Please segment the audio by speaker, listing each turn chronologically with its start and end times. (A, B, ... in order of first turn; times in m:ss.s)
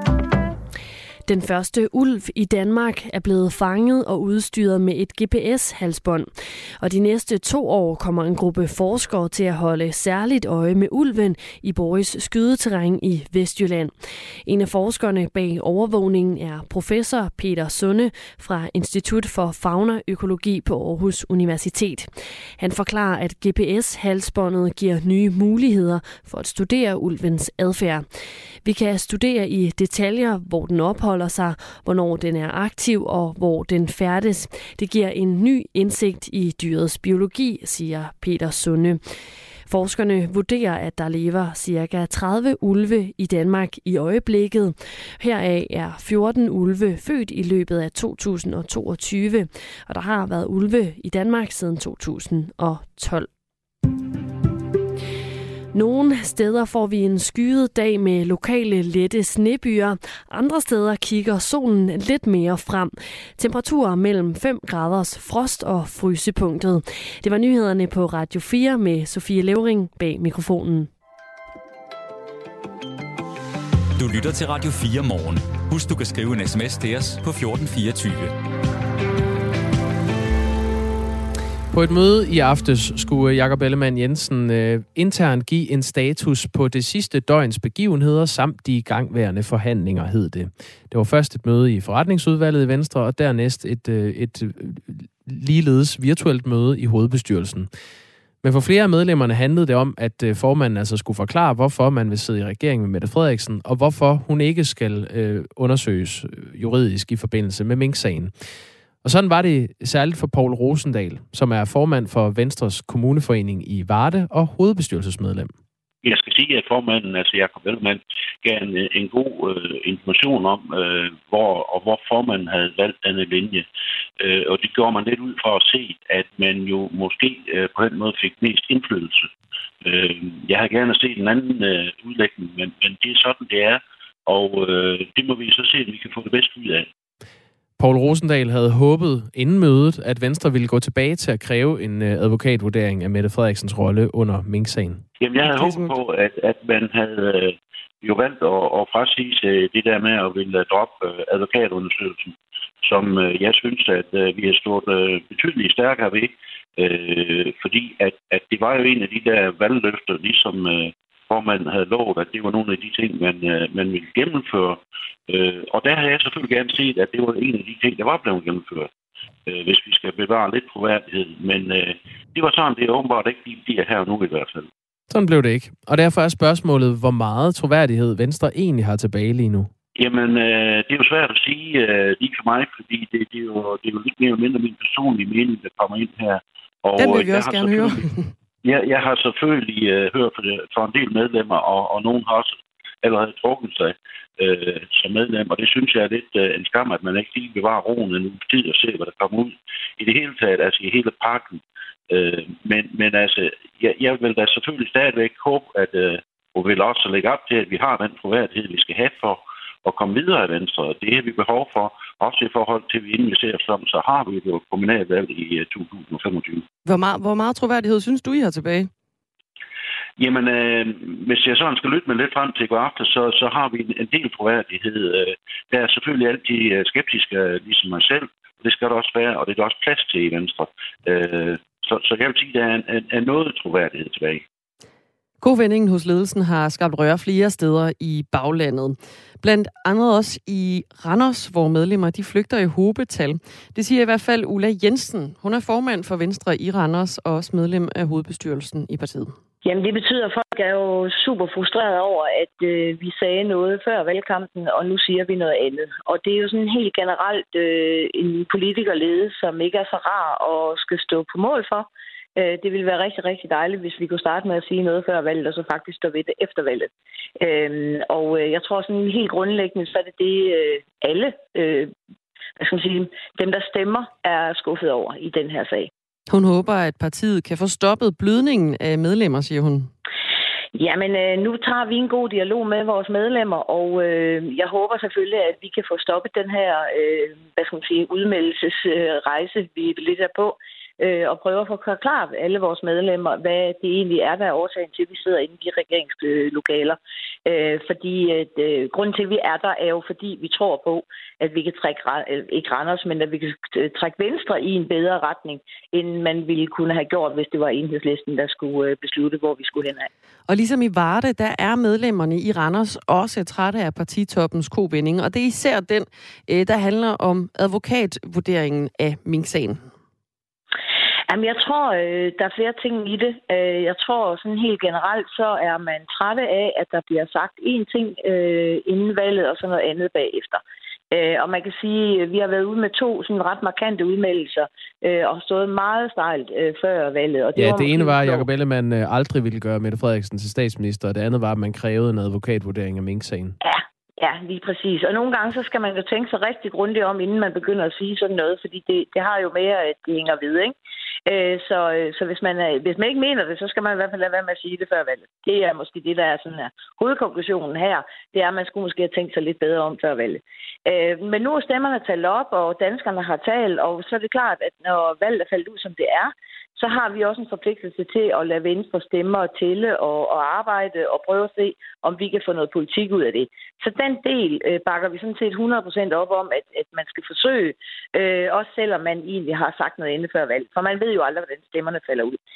0:01.3-0:06.3 A
0:06.8-0:13.9 A
0:14.5-0:28.1 A
0:28.6-0:39.0 A
0:39.7-0:53.3 A
0:55.7-1:10.9 A
1:14.0-1:18.4 B
1:21.7-1:37.7 C
1:38.4-1:48.3 C
1:49.0-1:55.5 C
1:56.0-2:03.6 D
2:04.2-2:09.3 D
2:09.8-2:16.9 D
2:17.8-2:25.0 C
2:25.2-2:48.9 D
2:25.4-2:25.9 E
2:49.5-2:54.7 D
2:55.1-2:59.7 C
3:00.0-3:08.0 D
3:07.0-3:08.1 E
3:08.6-3:36.6 D
3:36.8-3:38.9 E
3:40.2-3:54.4 D
3:55.4-4:09.3 E
4:09.6-4:31.9 F
4:32.6-4:35.9 F
4:36.3-4:39.9 E
4:40.8-5:10.1 F
5:10.5-5:19.8 E
5:21.3-5:38.5 F
5:37.6-5:43.6 C
5:43.6-6:22.4 F